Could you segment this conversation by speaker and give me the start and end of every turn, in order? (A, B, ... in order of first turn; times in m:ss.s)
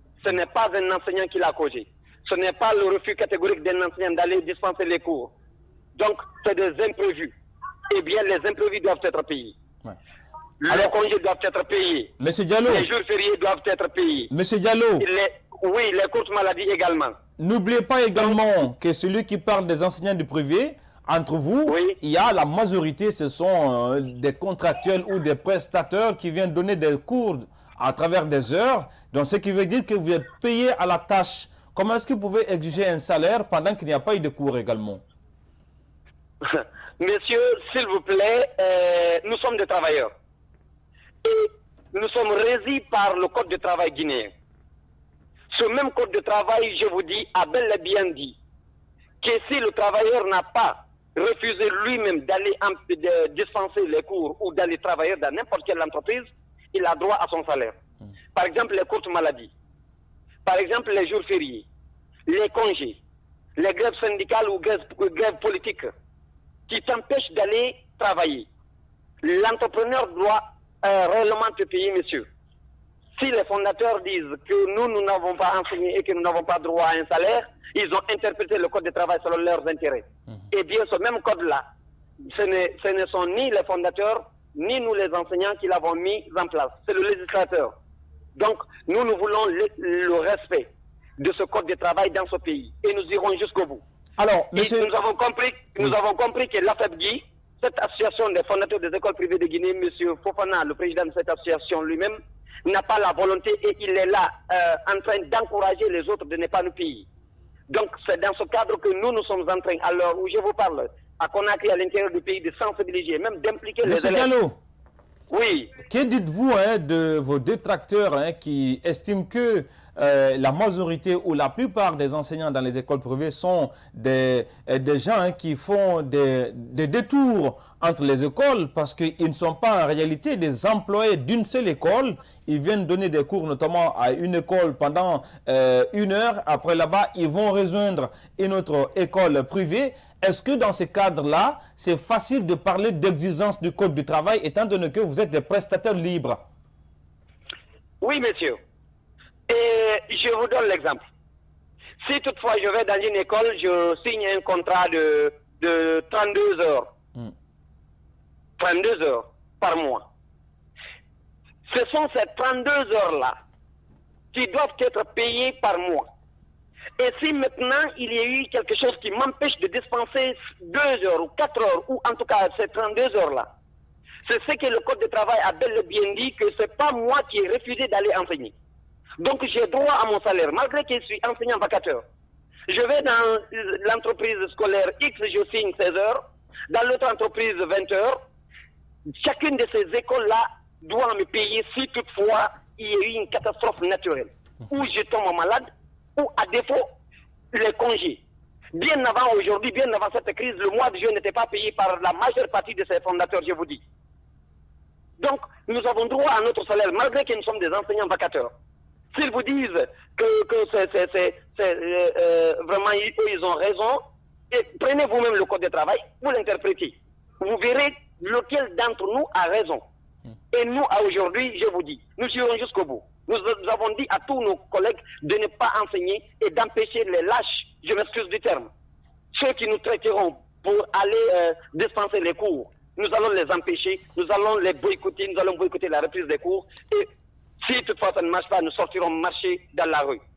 0:00.2-0:05.3 A
0:06.0-0:07.4 A
0:07.9-0:09.6 A
0:10.6-0:12.1 A
0:12.2-0:12.9 B
0:12.7-0:14.3 A
0:14.3-0:15.0 B
0:15.0-0:17.2 A
0:17.4-0:35.0 B
0:21.7-0:22.0 A
0:36.4-0:40.1 A
0:41.2-0:44.3 A
0:45.5-0:48.4 A
0:49.2-0:57.8 A
0:58.4-0:59.5 A
1:00.5-1:01.7 A
1:02.3-1:03.0 A
1:03.6-1:05.9 A
1:06.7-1:08.5 A
1:09.2-1:12.3 A
1:13.2-1:21.7 A
1:22.2-1:27.7 A
1:28.4-1:33.8 A
1:34.2-1:34.9 B
1:34.6-1:47.1 A
1:47.7-1:54.3 A
1:53.8-1:54.6 B
1:55.3-1:55.7 A
1:55.8-2:26.4 B
2:28.0-2:28.6 A
2:29.5-2:31.0 A
2:32.0-2:36.9 A
2:38.6-2:40.1 A
2:41.7-2:43.4 A
2:44.3-2:46.1 A
2:47.0-2:53.5 A
2:54.2-2:58.5 A
2:59.2-3:02.0 A
3:02.7-3:08.2 A
3:09.1-3:16.9 A
3:17.5-3:18.2 A
3:18.7-3:23.8 A
3:25.2-3:28.5 A
3:29.1-3:39.8 A
3:40.5-3:48.7 A
3:49.3-3:57.1 A
3:57.6-4:00.2 A